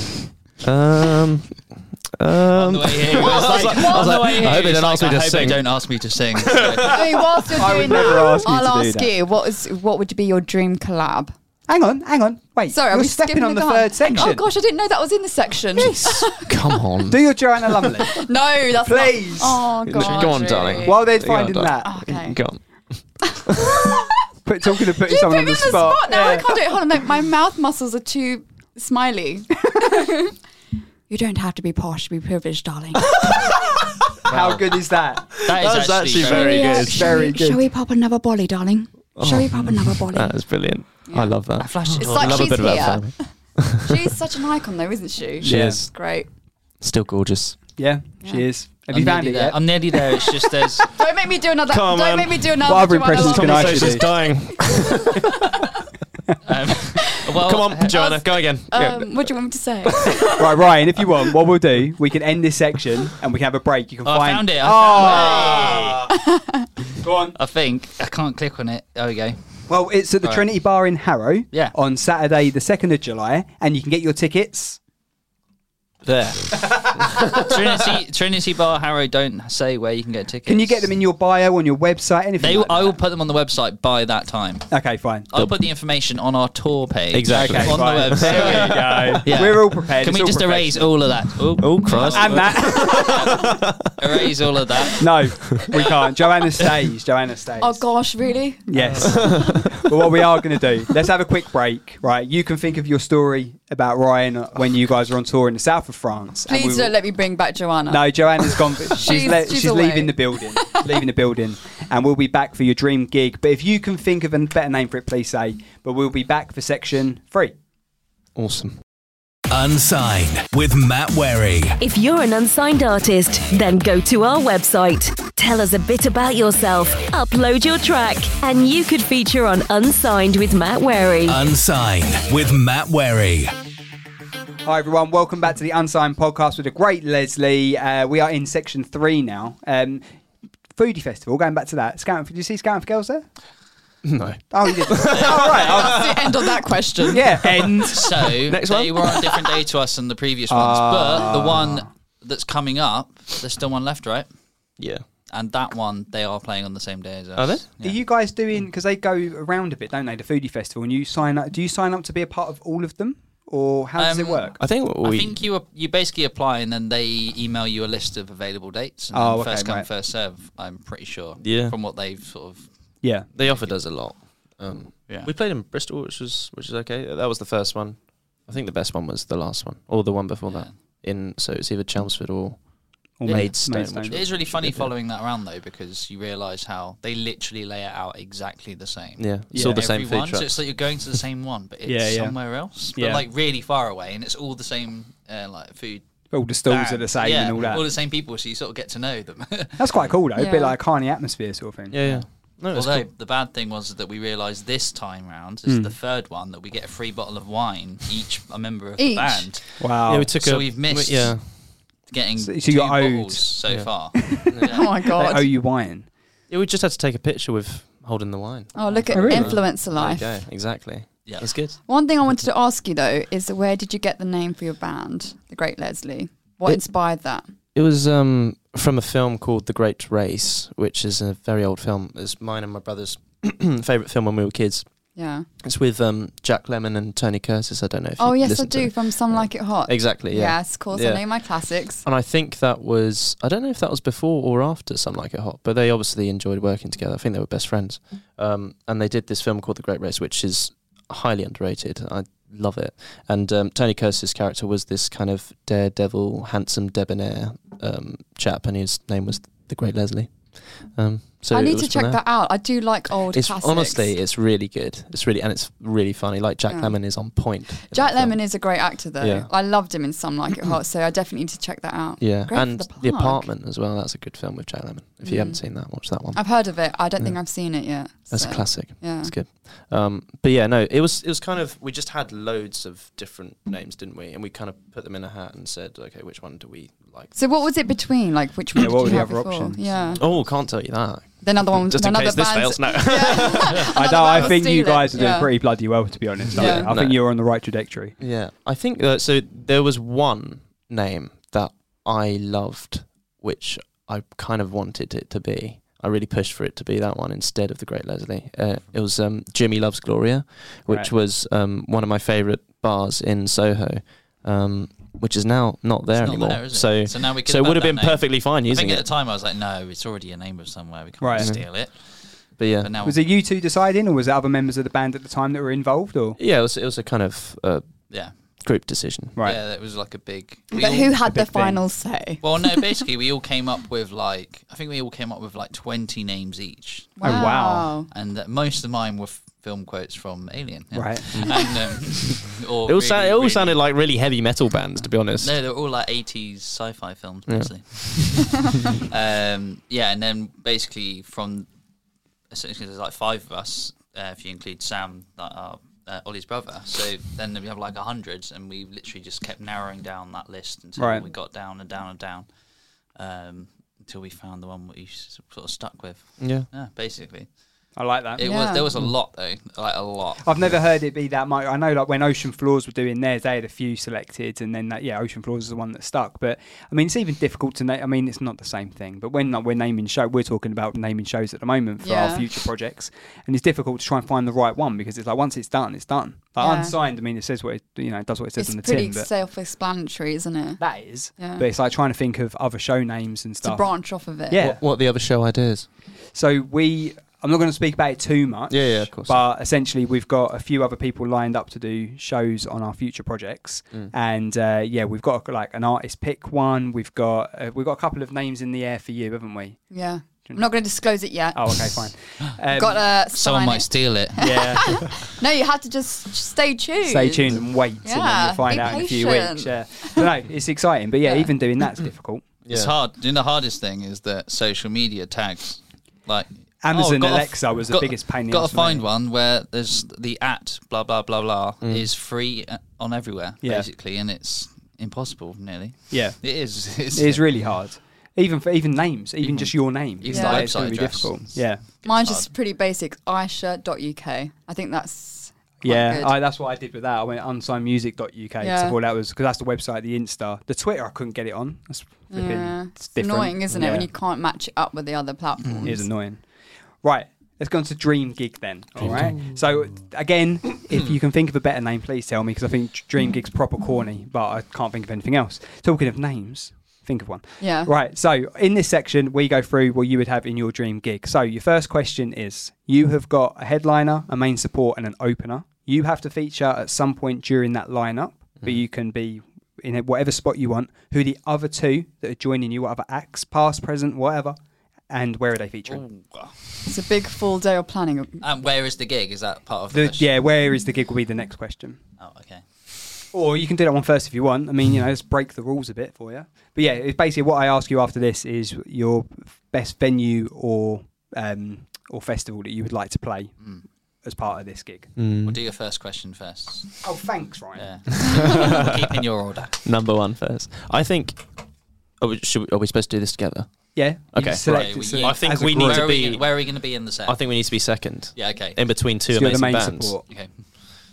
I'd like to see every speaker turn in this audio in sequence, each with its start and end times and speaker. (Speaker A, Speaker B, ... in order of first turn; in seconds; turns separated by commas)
Speaker A: 0.6-7.1, Speaker B: 2.5-7.0, Speaker C: 3.5-4.2, Speaker C: 6.8-11.3, Speaker D: 7.5-9.1, Speaker D: 11.7-14.4, Speaker C: 12.7-16.5, Speaker A: 15.8-17.9, Speaker D: 17.1-18.2, Speaker C: 18.1-21.0, Speaker D: 18.8-19.7, Speaker A: 19.8-22.6, Speaker B: 20.0-20.7, Speaker D: 20.8-22.0, Speaker C: 21.8-22.4, Speaker C: 23.3-24.1, Speaker A: 23.5-23.8, Speaker D: 24.4-26.6, Speaker C: 24.9-30.3, Speaker C: 31.1-33.6, Speaker B: 34.3-34.8, Speaker D: 34.3-35.3, Speaker A: 35.3-37.2, Speaker B: 35.5-36.9, Speaker C: 36.2-46.3, Speaker D: 36.9-37.6, Speaker A: 39.1-44.0, Speaker B: 41.6-42.7, Speaker D: 45.4-45.8, Speaker A: 45.4-46.1, Speaker A: 46.8-47.7, Speaker D: 47.8-49.7, Speaker B: 48.9-50.9, Speaker C: 50.9-54.2, Speaker A: 51.6-55.3, Speaker D: 52.6-54.1, Speaker B: 56.4-58.1, Speaker A: 57.1-59.3, Speaker C: 57.9-60.6, Speaker A: 59.8-60.5, Speaker D: 60.4-66.0, Speaker B: 64.0-66.1, Speaker C: 66.1-66.7, Speaker D: 67.0-67.3, Speaker B: 67.0-69.6, Speaker D: 69.7-74.8, Speaker B: 76.1-80.9, Speaker A: 76.1-76.4, Speaker D: 80.4-83.0, Speaker B: 82.4-84.8, Speaker D: 84.7-85.3, Speaker B: 85.3-93.5, Speaker A: 85.3-85.6, Speaker A: 87.1-89.2, Speaker D: 87.3-91.0, Speaker A: 91.6-94.2, Speaker D: 92.1-93.3, Speaker B: 94.0-96.7, Speaker D: 95.0-97.8, Speaker A: 95.4-95.7, Speaker C: 97.6-99.7, Speaker D: 98.7-107.0, Speaker A: 98.7-99.9, Speaker C: 106.5-110.8, Speaker D: 107.9-117.5, Speaker A: 118.3-118.8, Speaker E: 119.5-121.8, Speaker F: 121.8-131.4, Speaker E: 131.2-133.5, Speaker D: 134.6-140.0, Speaker D: 140.7-143.3, Speaker A: 144.0-146.5, Speaker D: 144.5-146.1, Speaker C: 145.5-147.4, Speaker D: 147.1-148.2, Speaker A: 147.5-149.6, Speaker B: 147.8-154.3, Speaker D: 150.5-151.8, Speaker A: 154.8-155.0, Speaker B: 155.3-158.0, Speaker A: 157.3-157.7, Speaker D: 157.8-164.6, Speaker B: 164.0-173.7, Speaker A: 164.6-165.4, Speaker D: 169.1-169.9, Speaker A: 171.4-171.8, Speaker D: 173.0-173.3, Speaker A: 173.3-184.9, Speaker B: 175.1-175.3, Speaker B: 180.5-180.8, Speaker D: 183.2-184.4, Speaker B: 183.2-183.6, Speaker B: 184.1-196.0, Speaker A: 189.2-190.8, Speaker D: 189.5-189.9, Speaker D: 191.8-193.2, Speaker D: 196.3-197.8, Speaker B: 196.7-200.2, Speaker D: 199.8-202.1, Speaker C: 200.3-200.8, Speaker A: 201.9-203.1, Speaker B: 202.7-215.1, Speaker D: 205.7-205.9, Speaker C: 209.0-209.5, Speaker D: 209.8-210.3, Speaker A: 210.0-211.9, Speaker D: 212.4-213.6, Speaker A: 213.6-214.8, Speaker D: 214.1-216.1, Speaker C: 214.7-215.5, Speaker A: 216.5-221.8, Speaker C: 218.7-220.4, Speaker B: 218.8-219.3, Speaker D: 219.1-219.6, Speaker B: 221.2-221.6, Speaker C: 221.8-227.5, Speaker A: 227.7-234.9, Speaker C: 235.2-235.4, Speaker A: 235.6-241.4, Speaker C: 238.2-242.0, Speaker A: 242.0-262.2, Speaker C: 261.5-264.1, Speaker A: 263.3-269.5, Speaker C: 266.7-266.9, Speaker C: 267.7-273.5, Speaker A: 272.2-277.6, Speaker C: 275.2-279.3, Speaker A: 278.3-287.4, Speaker C: 287.3-290.2, Speaker D: 288.7-290.1, Speaker B: 290.0-290.3, Speaker A: 290.2-293.9, Speaker C: 291.4-295.6, Speaker D: 293.9-298.1, Speaker C: 296.5-296.9, Speaker A: 296.5-297.5, Speaker A: 298.2-319.1, Speaker B: 316.2-323.2, Speaker D: 321.2-321.6, Speaker A: 321.4-321.8, Speaker A: 322.6-322.9, Speaker D: 323.0-326.4, Speaker A: 326.4-329.4, Speaker B: 328.1-328.4, Speaker D: 329.4-329.6, Speaker B: 329.4-331.1, Speaker C: 330.7-333.0, Speaker D: 331.2-331.8, Speaker B: 332.4-337.6, Speaker C: 337.2-338.1, Speaker D: 337.2-337.9, Speaker B: 338.1-343.8, Speaker D: 340.9-341.4, Speaker A: 341.3-341.7, Speaker A: 342.2-345.6, Speaker B: 345.4-351.7, Speaker A: 347.5-348.5, Speaker B: 352.5-362.5, Speaker D: 361.0-361.2, Speaker B: 363.1-367.5, Speaker A: 366.4-366.7, Speaker D: 367.9-368.4, Speaker B: 368.3-370.7, Speaker C: 368.4-368.9, Speaker D: 370.4-389.3, Speaker C: 382.0-382.4, Speaker C: 386.6-386.9, Speaker C: 388.6-390.8, Speaker D: 390.8-394.8, Speaker C: 391.3-391.6, Speaker C: 393.6-394.6, Speaker A: 394.6-395.9, Speaker D: 396.3-409.9, Speaker A: 398.7-399.4, Speaker C: 409.9-412.1, Speaker D: 411.5-413.0, Speaker C: 412.7-420.2, Speaker B: 413.2-414.9, Speaker D: 414.4-415.0, Speaker D: 417.0-422.5, Speaker C: 421.2-421.5, Speaker A: 422.6-423.0, Speaker B: 422.7-437.7, Speaker D: 426.8-429.0, Speaker A: 431.8-432.1, Speaker D: 433.6-433.9, Speaker D: 436.1-436.4, Speaker D: 437.1-441.8, Speaker B: 439.4-442.5, Speaker C: 440.3-440.7, Speaker C: 442.0-446.4, Speaker D: 445.8-454.1, Speaker C: 448.6-448.9, Speaker C: 452.3-456.1, Speaker B: 455.6-455.9, Speaker D: 455.8-456.5, Speaker D: 457.0-484.6, Speaker A: 459.0-459.5, Speaker B: 459.0-459.4, Speaker C: 467.6-467.9, Speaker D: 485.1-486.0, Speaker B: 485.9-486.5, Speaker C: 486.9-488.4, Speaker B: 488.4-490.3, Speaker D: 489.9-492.0, Speaker B: 492.2-492.6, Speaker D: 493.3-503.6, Speaker D: 504.2-505.2, Speaker A: 505.1-505.6, Speaker B: 505.4-507.1, Speaker D: 507.0-508.2, Speaker B: 507.7-509.8, Speaker A: 508.1-509.0, Speaker A: 509.8-511.6, Speaker A: 512.2-520.2, Speaker D: 513.9-516.2, Speaker B: 514.6-519.0, Speaker D: 519.3-520.2, Speaker B: 520.2-520.9